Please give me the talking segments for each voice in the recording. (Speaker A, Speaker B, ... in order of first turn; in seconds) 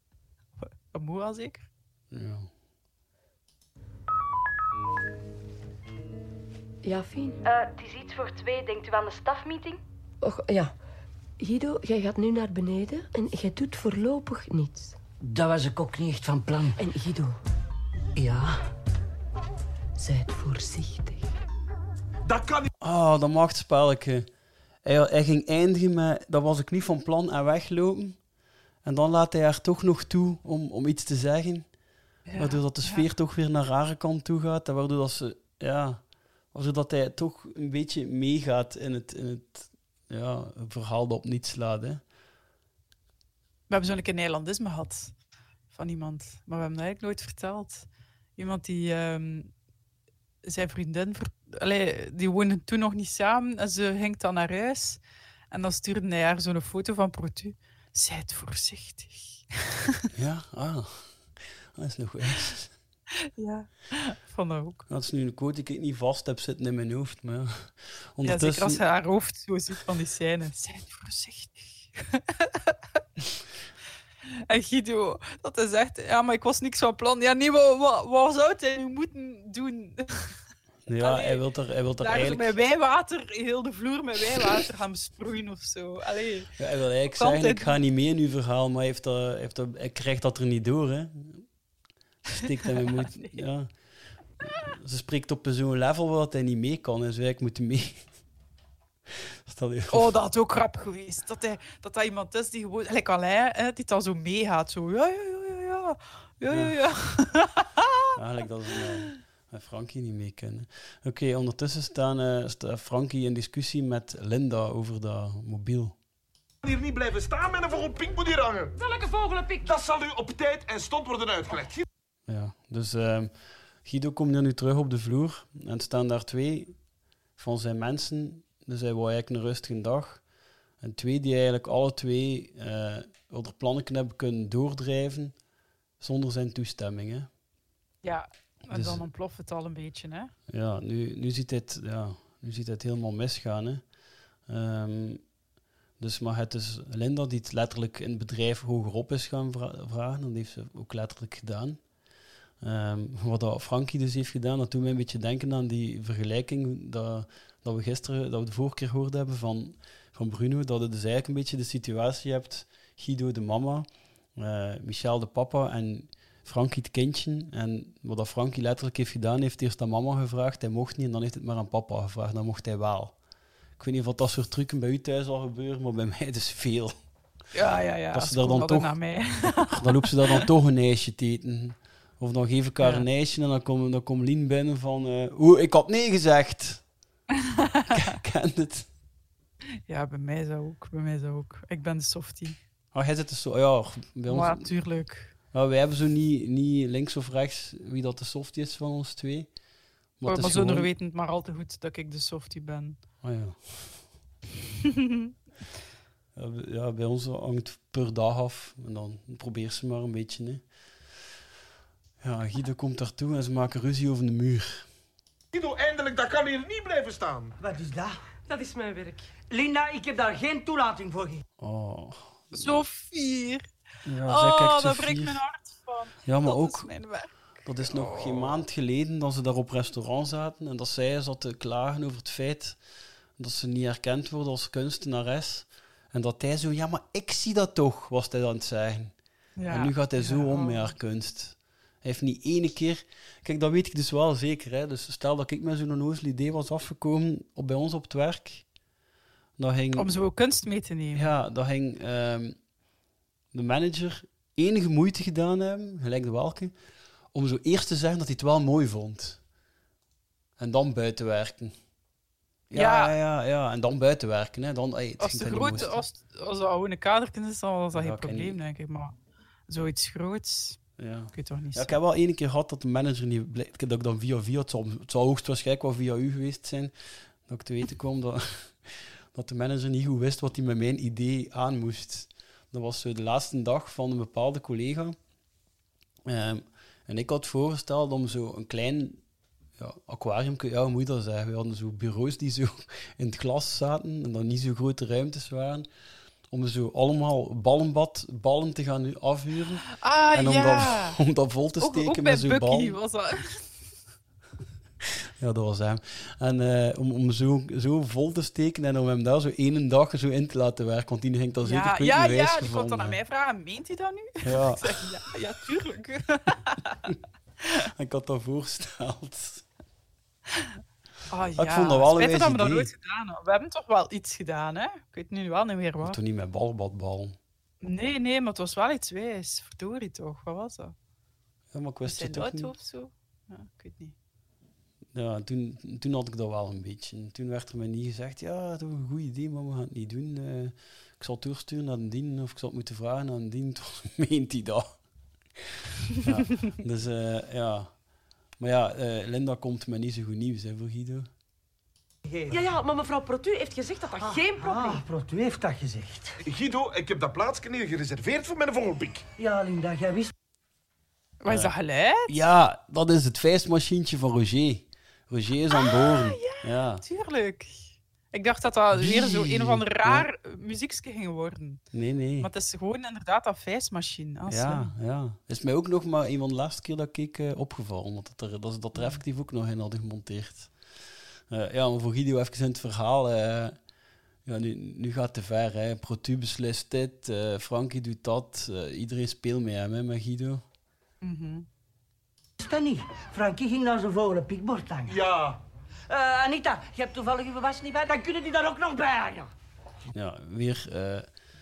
Speaker A: 0.6-1.7, 32.3-33.1, 43.7-45.2, 45.7-49.5, 50.5-59.5, 63.4-64.8, 68.2-72.8, 74.5-80.4, 81.0-81.4, 82.0-86.5, 87.1-87.8, 93.0-93.4, 99.9-107.8, 138.0-140.3, 177.5-180.4, 182.8-183.1, 189.9-192.6, 194.3-195.3, 200.3-203.0, 222.5-223.7, 224.3-228.6, 239.6-240.9, 249.9-251.3, 262.8-263.1, 265.2-269.1, 269.7-270.8, 271.3-272.0, 300.0-301.2, 301.8-303.6, 311.6-317.0, 321.3-326.2, 327.8-330.9, 332.1-334.1, 361.4-362.4, 365.7-371.9, 372.4-374.9, 378.9-379.2, 391.2-391.7
Speaker B: 2.1-2.5, 22.8-24.3, 24.8-28.2, 28.8-31.7, 32.4-42.0, 60.1-62.8, 64.9-68.8, 80.9-82.5, 86.6-91.5, 92.3-93.8, 94.4-98.1, 99.5-100.1, 106.5-106.8, 108.2-116.0, 122.3-126.8, 127.4-130.3, 130.8-135.4, 136.0-137.3, 138.7-139.1, 140.5-143.8, 144.5-145.2, 146.0-151.8, 152.6-173.2, 173.8-177.0, 178.1-186.9, 187.9-188.9, 192.9-194.7, 195.5-199.5, 200.2-200.9, 203.2-204.1, 206.3-211.2, 212.2-214.9, 221.6-222.8, 224.1-225.4, 226.2-226.9, 227.6-232.8, 233.4-248.7, 249.6-250.2, 251.1-252.6, 253.5-256.8, 257.3-259.4, 260.6-261.8, 262.7-266.1, 267.9-268.6, 271.0-285.2, 286.3-289.2, 289.8-295.9, 296.5-303.0, 305.4-313.2, 314.4-315.1, 318.0-319.6, 321.6-322.9, 326.0-327.4, 331.7-332.7, 335.1-345.0, 345.6-347.9, 348.6-351.3, 361.5-361.7, 362.3-367.1, 368.9-370.3, 371.9-372.5, 374.5-383.8, 384.4-390.6, 400.1-401.3
Speaker C: 6.8-7.4, 10.2-10.8, 11.4-15.0, 16.8-17.4, 20.0-21.3
Speaker D: 7.4-9.8
Speaker E: 15.2-16.8, 18.2-18.6, 217.6-218.2, 219.5-221.4, 352.3-352.6, 354.2-356.4, 359.4-360.3, 392.6-395.2, 396.1-399.5
Speaker F: 22.3-22.7, 116.6-118.8, 119.6-121.8, 215.5-217.6, 356.4-359.2
Speaker G: 118.8-119.6, 218.4-219.3, 352.5-355.0